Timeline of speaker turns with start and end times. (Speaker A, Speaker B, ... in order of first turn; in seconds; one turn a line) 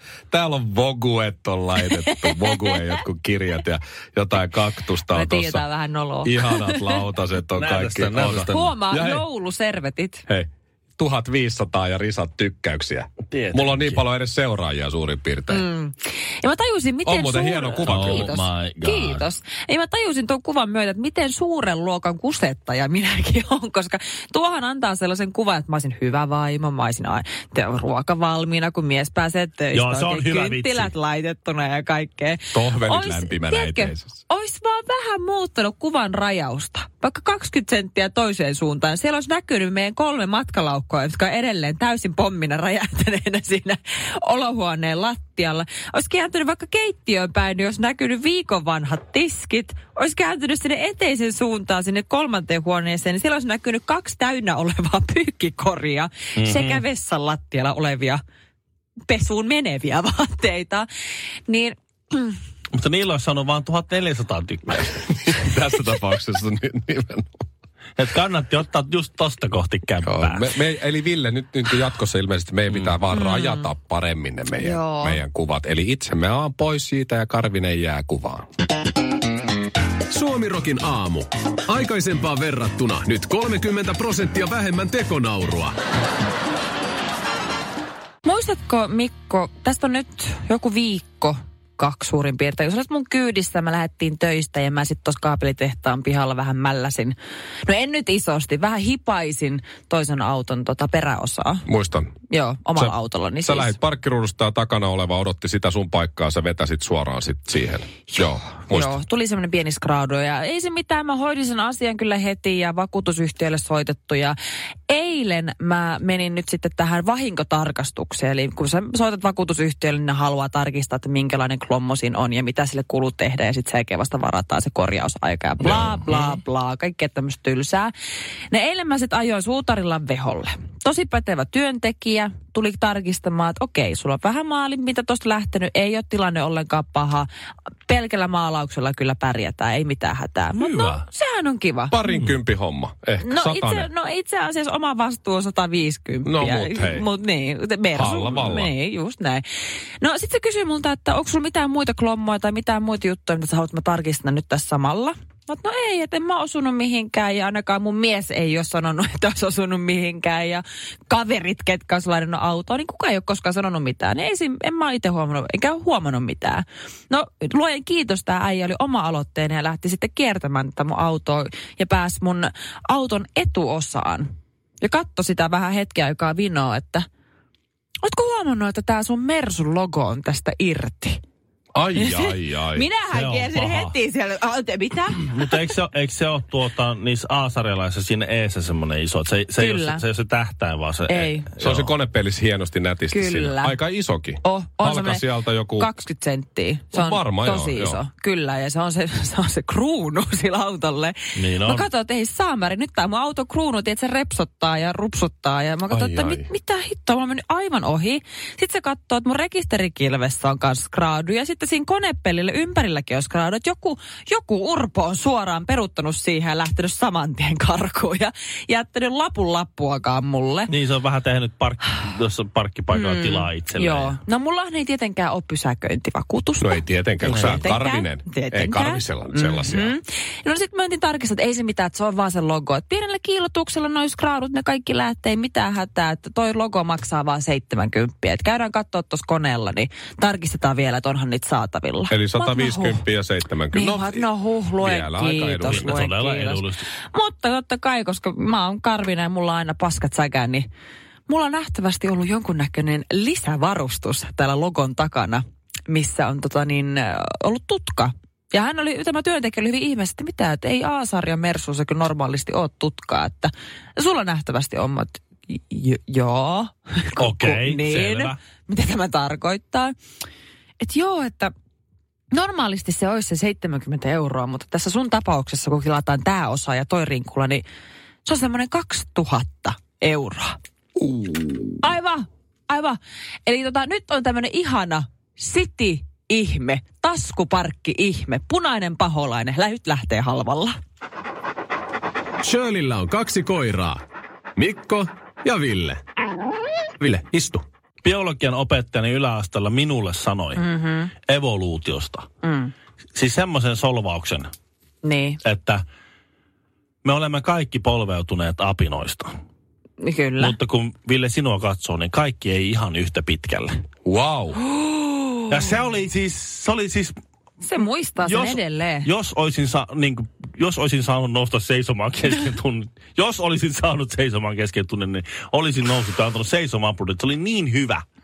Speaker A: 0.3-5.6
Speaker B: 2.1-2.9
Speaker B: 5.1-7.0
Speaker A: 6.2-9.2
Speaker C: 7.6-8.6
Speaker B: 8.5-10.2
Speaker A: 10.3-15.7
Speaker C: 13.3-14.0
Speaker B: 15.5-58.2
Speaker A: 17.0-18.4
Speaker C: 17.8-19.2
Speaker C: 29.7-30.9
Speaker A: 32.5-34.1
Speaker C: 56.4-56.8
Speaker B: 59.1-60.9
Speaker B: 61.5-62.4
Speaker C: 62.7-64.8
Speaker A: 64.7-67.4
Speaker C: 68.0-70.5
Speaker A: 70.0-78.4
Speaker C: 72.7-73.0
Speaker B: 73.1-73.7
Speaker B: 74.6-75.2
Speaker D: 80.1-85.7
Speaker B: 88.2-101.6
Speaker A: 101.7-102.1
Speaker B: 102.3-103.8
Speaker A: 102.8-108.9
Speaker B: 108.7-114.3
Speaker B: 114.9-127.9
Speaker A: 125.6-126.0
Speaker B: 128.5-137.3
Speaker B: 137.9-141.9
Speaker C: 140.6-141.0
Speaker A: 141.9-143.9
Speaker B: 143.2-149.4
Speaker A: 146.2-147.1
Speaker A: 147.9-148.7
Speaker B: 150.0-174.3
Speaker B: 174.8-177.1
Speaker B: 178.0-181.2
Speaker A: 181.7-182.8
Speaker B: 181.9-185.5
Speaker C: 183.1-183.9
Speaker C: 185.2-191.9
Speaker B: 189.6-190.0
Speaker B: 191.1-191.5
Speaker A: 191.6-195.9
Speaker B: 193.1-193.8
Speaker B: 194.4-220.7
Speaker A: 196.9-198.0
Speaker C: 201.3-201.8
Speaker A: 205.9-206.4
Speaker C: 220.7-224.2
Speaker B: 222.9-243.0
Speaker A: 226.6-230.0
Speaker C: 227.3-227.7
Speaker A: 242.1-246.0
Speaker B: 243.7-250.7
Speaker C: 245.7-246.8
Speaker B: 251.3-269.9
Speaker C: 267.2-268.4
Speaker B: 270.8-271.5
Speaker B: 272.3-277.6
Speaker B: 278.2-280.6
Speaker A: 281.0-281.9
Speaker B: 281.8-290.7
Speaker D: 292.4-294.0
Speaker D: 294.6-296.0
Speaker D: 297.0-297.6
Speaker C: 298.0-300.6
Speaker B: 300.6-301.1
Speaker C: 301.3-302.3
Speaker B: 302.4-302.7
Speaker C: 303.1-304.5
Speaker B: 305.0-305.4
Speaker C: 305.4-305.8
Speaker C: 307.0-309.3
Speaker B: 310.0-310.6
Speaker C: 310.4-313.8
Speaker A: 314.0-314.6
Speaker B: 314.7-315.5
Speaker C: 315.5-317.1
Speaker B: 317.6-319.1
Speaker C: 318.2-328.0